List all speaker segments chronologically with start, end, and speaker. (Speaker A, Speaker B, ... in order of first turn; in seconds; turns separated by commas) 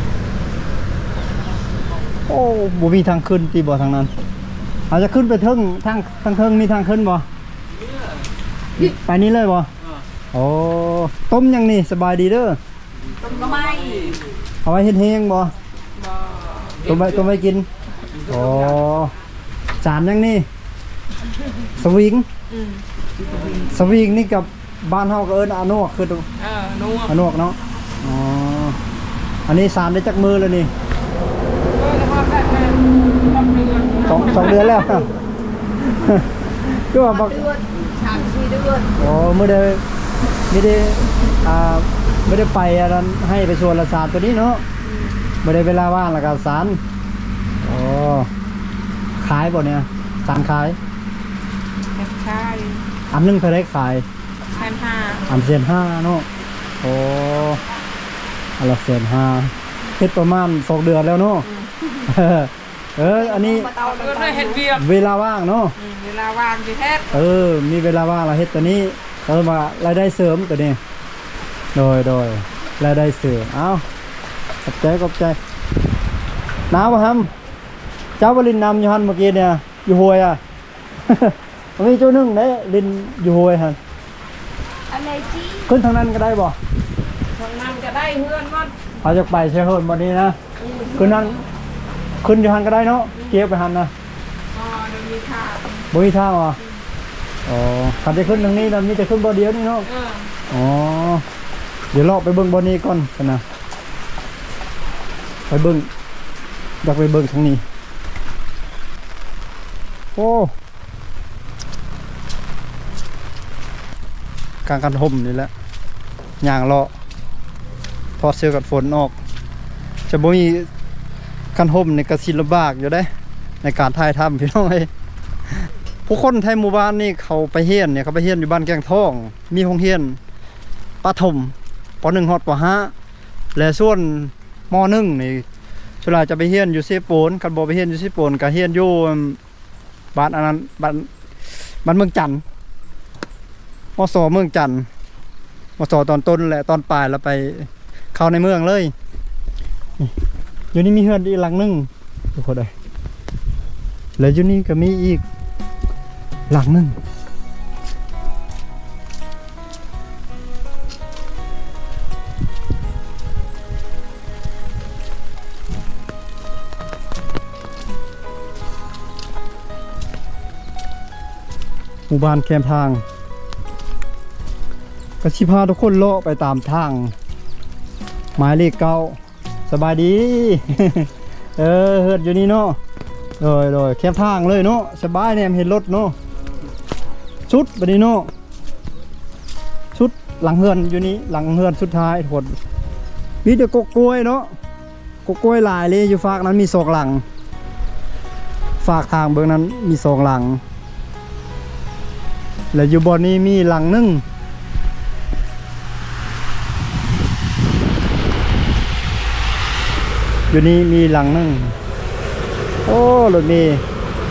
Speaker A: 2.3-4.1, Speaker A: 4.9-7.3, Speaker A: 8.8-9.7, Speaker A: 10.3-12.6, Speaker B: 13.2-14.0, Speaker A: 14.6-15.5, Speaker C: 16.3-16.7, Speaker A: 16.8-17.7, Speaker A: 18.3-19.1, Speaker A: 19.8-20.5, Speaker A: 21.8-22.3, Speaker C: 22.5-22.8, Speaker A: 23.6-26.3, Speaker C: 26.4-27.1, Speaker A: 27.1-28.8, Speaker A: 29.5-30.7, Speaker C: 31.8-34.2, Speaker A: 34.0-35.1, Speaker A: 35.8-37.5, Speaker B: 37.0-38.9, Speaker A: 39.0-39.8, Speaker A: 40.5-44.6, Speaker A: 45.4-46.8, Speaker A: 47.6-48.3, Speaker A: 49.2-50.8, Speaker C: 52.0-52.8, Speaker A: 53.1-54.0, Speaker C: 54.6-55.2, Speaker A: 55.3-56.3, Speaker A: 56.8-57.6, Speaker A: 58.6-61.5, Speaker A: 62.0-63.7, Speaker B: 63.0-64.7, Speaker C: 64.0-64.8, Speaker A: 64.7-65.8, Speaker C: 65.8-67.1, Speaker A: 67.1-70.8, Speaker A: 71.8-73.8, Speaker A: 74.7-75.4, Speaker A: 76.7-77.3, Speaker A: 78.2-80.4, Speaker A: 81.1-83.8, Speaker A: 85.7-86.6, Speaker C: 87.3-88.7, Speaker A: 89.0-90.4, Speaker C: 90.6-91.4, Speaker A: 90.9-91.4, Speaker A: 92.2-93.9, Speaker C: 94.5-95.8, Speaker A: 95.9-96.6, Speaker A: 97.5-99.9, Speaker C: 99.9-100.3, Speaker A: 100.5-101.2, Speaker A: 101.9-103.4, Speaker A: 105.5-105.9, Speaker A: 106.8-107.6, Speaker A: 110.2-110.5, Speaker A: 114.7-115.5, Speaker A: 116.4-116.9, Speaker A: 118.2-119.1, Speaker A: 120.1-120.7, Speaker A: 121.5-123.1, Speaker A: 123.6-124.9, Speaker A: 126.1-130.2, Speaker A: 131.0-132.9, Speaker A: 133.6-135.4, Speaker A: 136.0-139.4, Speaker A: 140.1-141.1, Speaker A: 141.8-142.4, Speaker A: 144.0-144.9, Speaker A: 145.8-148.9, Speaker A: 150.7-152.7, Speaker A: 154.2-155.2, Speaker A: 156.5-157.0, Speaker A: 172.1-173.0, Speaker A: 175.2-177.1, Speaker A: 178.4-182.8, Speaker A: 183.4-186.2, Speaker A: 187.5-188.3, Speaker A: 189.9-192.6, Speaker A: 193.4-194.5, Speaker A: 195.2-197.2, Speaker A: 198.8-200.6, Speaker A: 202.7-204.2, Speaker A: 210.5-211.8, Speaker A: 212.9-213.8